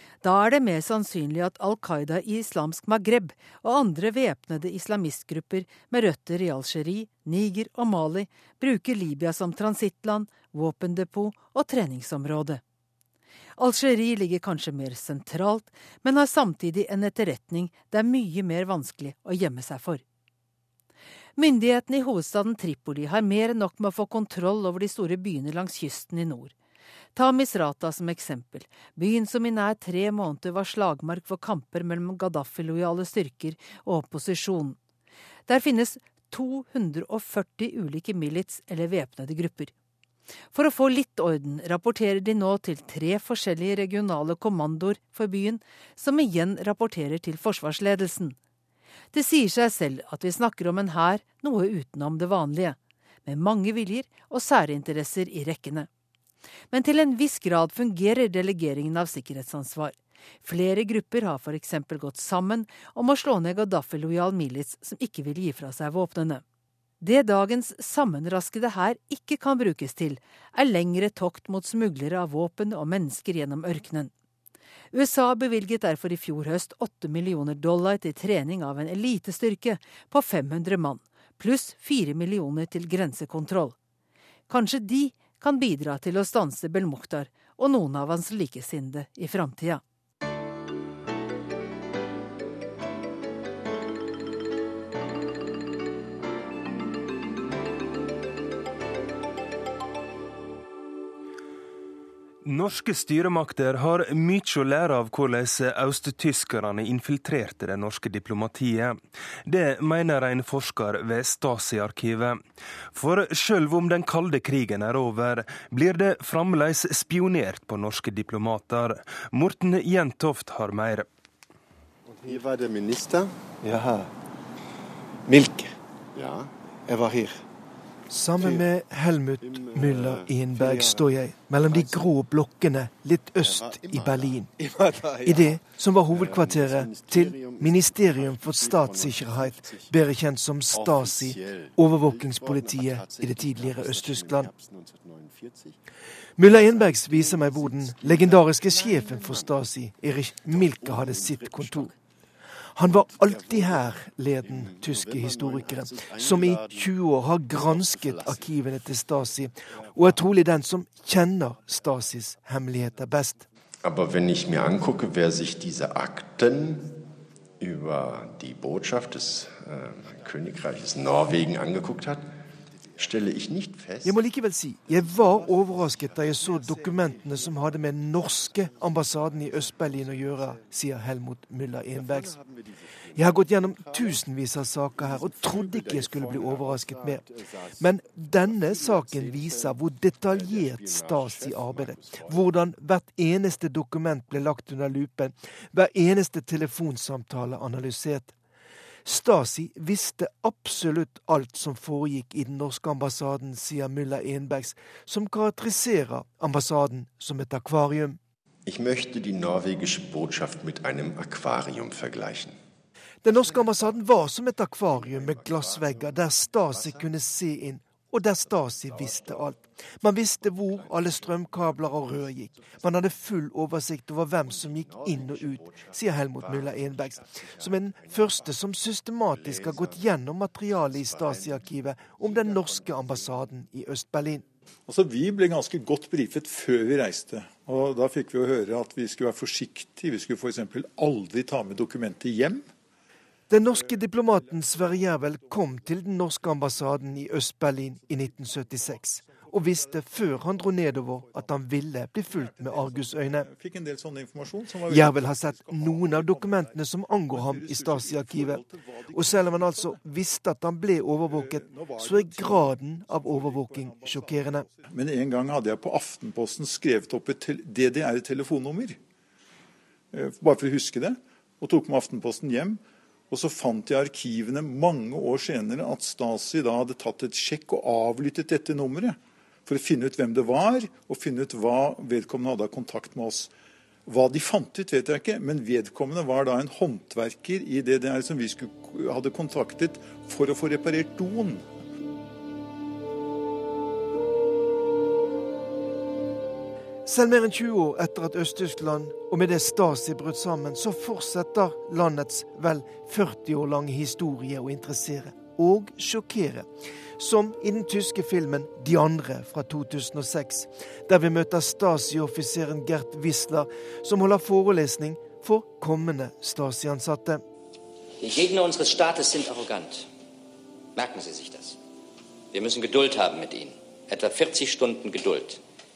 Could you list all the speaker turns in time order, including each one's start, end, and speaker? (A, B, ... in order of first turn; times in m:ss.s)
0:00.2-0:12.6 A
0:13.6-0:20.0 A
0:21.4-0:26.5 A
0:27.1-0:34.8 A
0:35.5-0:39.7 A
0:40.5-0:48.4 A
0:49.1-0:55.9 A
0:56.7-1:06.4 A
1:07.0-1:14.1 A
1:14.9-1:23.7 A
1:24.5-1:29.8 A
1:42.4-1:52.4 B
1:52.9-2:01.0 B
2:02.1-2:03.3 C
2:06.1-2:06.5 C
2:08.1-2:14.5 D
2:09.4-2:11.1 C
2:11.6-2:12.1 C
2:13.4-2:14.4 C
2:15.1-2:15.4 C
2:15.2-2:24.5 D
2:16.1-2:19.9 C
2:20.7-2:25.8 C
2:26.4-2:31.9 D
2:26.4-2:29.6 C
2:30.4-2:31.9 C
2:32.8-2:43.4 D
2:32.8-2:38.7 C
2:39.8-2:40.2 C
2:43.8-2:47.0 C
2:47.6-2:52.3 C
2:52.9-2:54.2 C
2:54.0-3:02.4 D
2:55.0-2:57.7 C
2:58.4-3:00.7 C
3:01.9-3:04.3 C
3:03.1-3:07.2 D
3:04.9-3:12.6 C
3:07.8-3:18.3 D
3:19.0-3:28.2 D
3:28.6-3:32.6 C
3:33.2-3:54.4 D
3:33.3-3:34.3 C
3:34.9-3:37.2 C
3:38.4-3:39.7 C
3:40.3-3:43.1 C
3:44.4-3:48.6 C
3:49.3-3:50.1 C
3:50.7-3:53.5 C
3:54.9-4:02.7 E
4:03.5-4:13.5 D
4:03.6-4:05.8 E
4:08.0-4:11.5 E
4:12.2-4:20.0 E
4:14.9-4:24.7 D
4:21.2-4:29.0 E
4:30.1-4:43.5 E
4:44.0-4:51.6 E
4:57.0-5:06.7 D
5:07.2-5:17.4 D
5:18.2-5:20.1 F
5:20.9-5:21.8 F
5:22.5-5:25.6 F